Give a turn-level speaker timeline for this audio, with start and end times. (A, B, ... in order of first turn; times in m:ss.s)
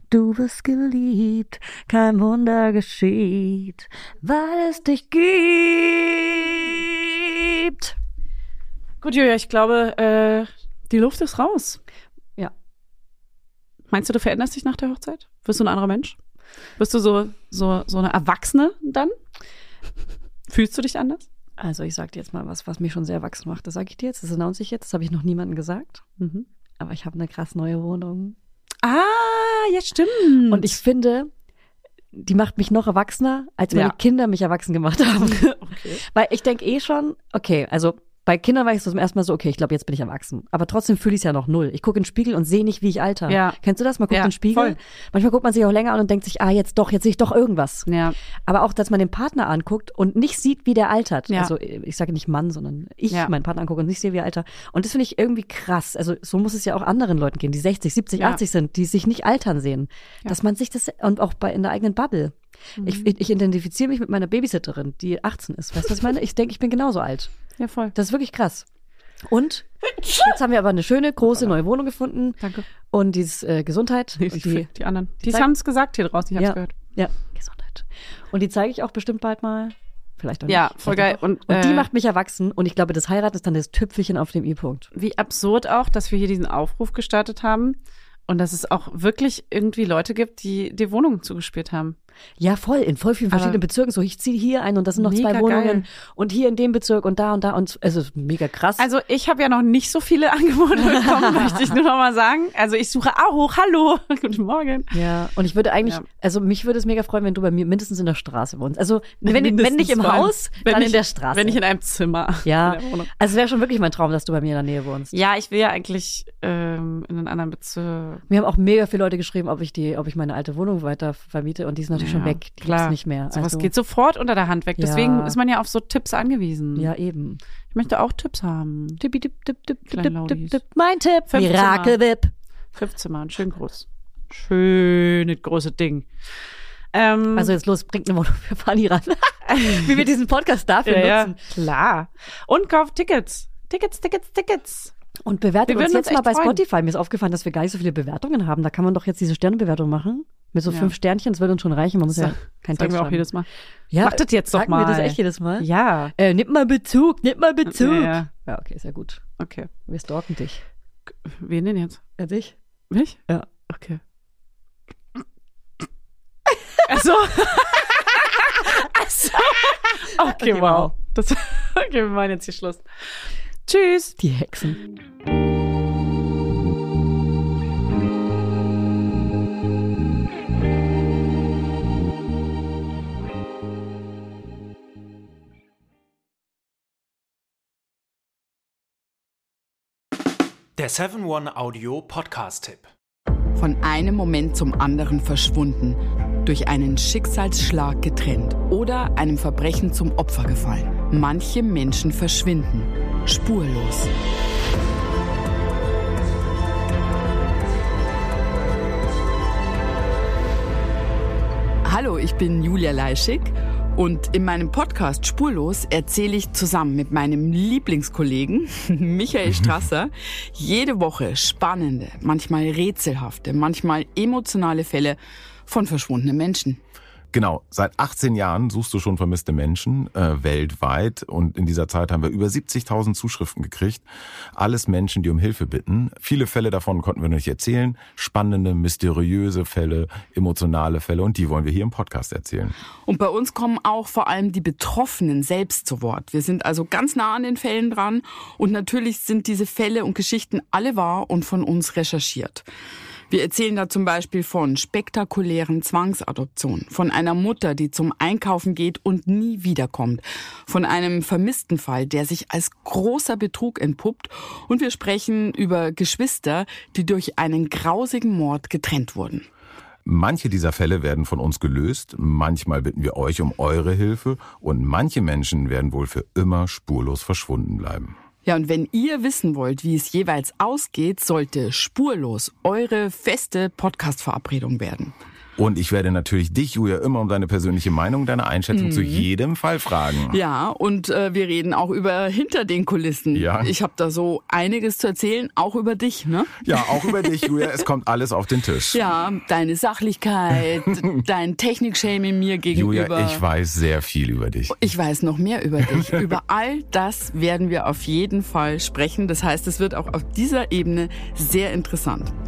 0:00.1-0:07.9 A
0:09.0-0:11.8 B
0:13.9-0:16.2 B
0:16.8-0:19.1 B
0:20.5-0:21.3 B
0:21.6-0:26.0 A
0:26.2-0:26.4 B
0:26.8-0:28.4 A
0:28.8-0:30.7 B
0:30.5-0:31.3 A
0:32.1-0:47.9 A
0:35.2-0:36.0 B
0:43.3-0:43.6 B
0:44.1-0:44.8 B
0:47.8-0:48.1 B
0:48.5-1:07.3 A
1:02.8-1:03.1 B
1:07.6-1:07.9 B
1:07.9-1:08.6 A
1:09.2-1:14.7 A
1:14.2-1:16.7 B
1:16.4-1:24.8 A
1:20.5-1:21.9 B
1:24.9-1:27.8 B
1:28.3-1:32.0 B
1:32.4-1:38.9 A
1:33.3-1:33.6 B
1:35.0-1:35.8 B
1:38.8-1:45.0 B
1:40.8-1:41.7 A
1:44.9-1:51.6 A
1:49.2-1:53.1 B
1:52.4-1:55.1 A
1:55.1-1:58.2 B
1:58.3-2:03.7 A
2:01.9-2:06.9 B
2:04.8-2:05.4 A
2:06.8-2:07.4 A
2:07.7-2:09.0 B
2:09.0-2:12.3 A
2:09.9-2:10.6 B
2:11.3-2:12.0 B
2:12.7-2:16.1 B
2:16.9-2:17.5 B
2:17.3-2:21.4 A
2:19.5-2:19.9 B
2:20.8-2:24.9 B
2:25.2-2:33.2 A
2:25.7-2:26.6 B
2:30.7-2:30.9 B
2:32.1-2:33.4 B
2:33.9-2:39.2 A
2:34.0-2:36.1 B
2:37.7-2:38.3 B
2:39.4-2:39.7 B
2:39.8-2:40.6 A
2:41.2-2:42.0 B
2:42.2-2:42.5 A
2:42.9-2:44.0 B
2:46.8-2:52.8 B
2:50.2-2:50.9 A
2:53.7-2:54.2 B
2:54.2-2:54.8 A
3:10.8-3:12.9 C
3:13.6-3:24.1 D
3:31.8-3:46.8 D
3:47.3-3:54.0 E
3:54.6-4:02.7 E
4:03.0-4:12.6 D
4:13.3-4:29.5 D
4:30.0-4:38.1 E
4:38.4-4:45.1 D
4:45.6-4:50.4 E
4:48.7-4:49.3 D
4:50.3-4:57.8 D
4:53.3-4:53.7 E
4:56.6-4:59.0 E
4:58.9-5:03.4 D
5:02.7-5:04.9 E
5:04.7-5:12.3 D